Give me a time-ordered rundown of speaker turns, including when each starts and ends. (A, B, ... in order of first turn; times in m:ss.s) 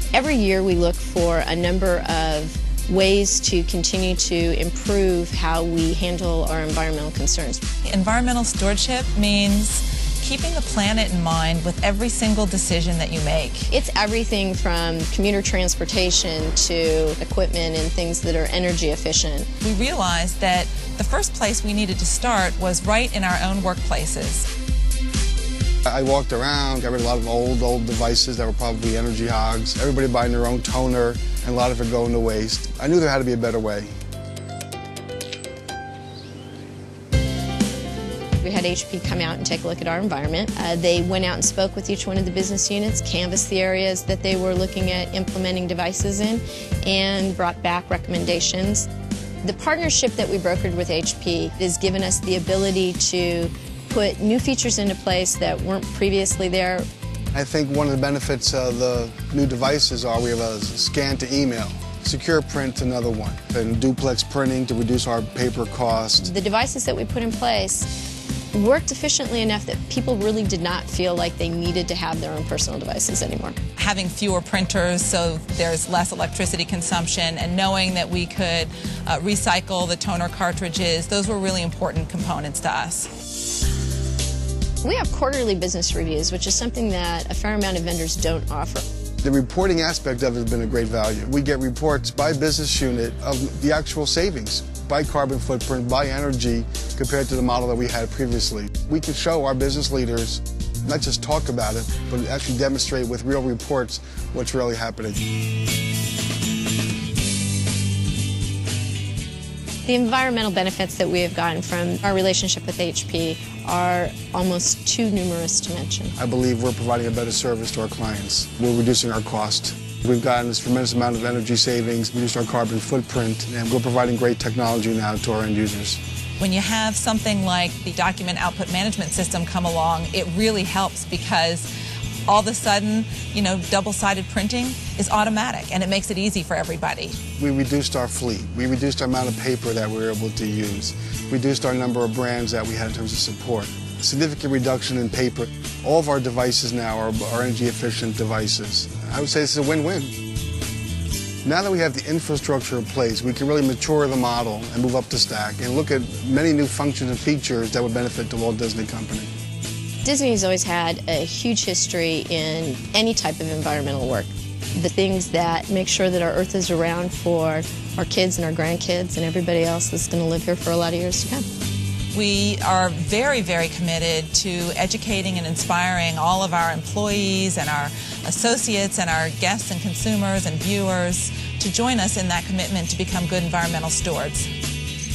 0:00.1-0:07.6 A
0:07.8-0:13.7 B
0:13.7-0:19.5 A
0:19.6-0:24.5 B
0:25.8-0:34.0 C
0:38.4-0:48.8 A
0:49.4-0:56.8 A
0:57.3-1:06.3 C
1:06.2-1:07.9 A
1:08.5-1:13.6 A
1:13.8-1:23.1 B
1:24.8-1:28.8 A
1:29.2-1:45.2 C
1:49.8-1:56.2 A
1:56.2-2:06.0 C
2:06.4-2:11.7 B
2:12.3-2:17.2 B
2:17.4-2:30.1 C
2:31.4-2:39.3 C
2:40.0-2:51.4 A
2:52.1-3:04.5 B